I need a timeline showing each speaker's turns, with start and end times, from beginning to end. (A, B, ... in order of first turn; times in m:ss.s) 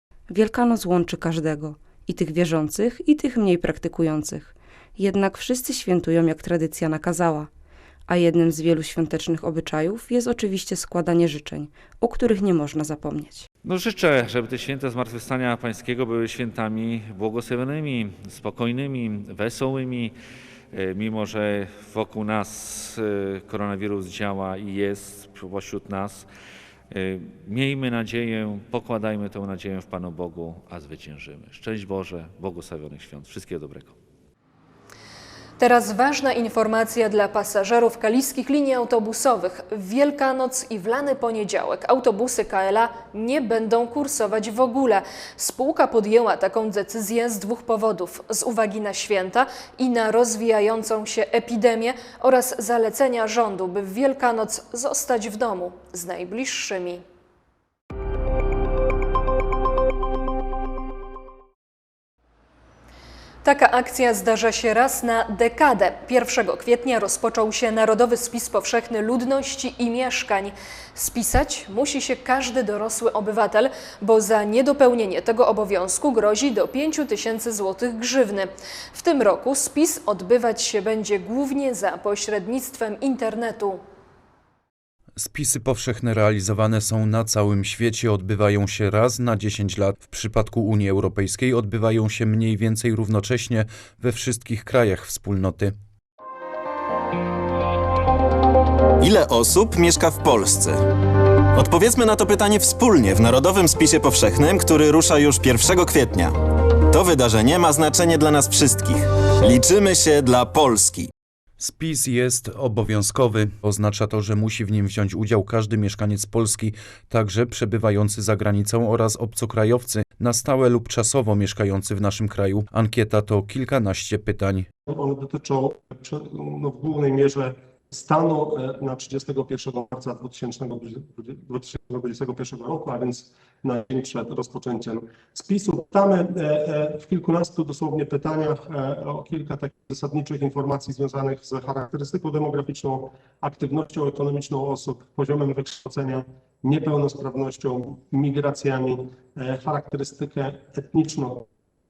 0:00.3-0:07.5 A
0:08.1-0:13.5 A
0:13.6-0:20.1 B
0:20.7-0:26.3 B
0:26.9-0:33.9 B
0:35.6-0:57.0 C
1:03.4-1:23.8 C
1:25.2-1:35.7 D
1:39.0-1:40.8 E
1:41.6-1:46.3 E
1:46.9-1:51.1 E
1:51.6-2:04.7 D
2:04.9-2:31.5 F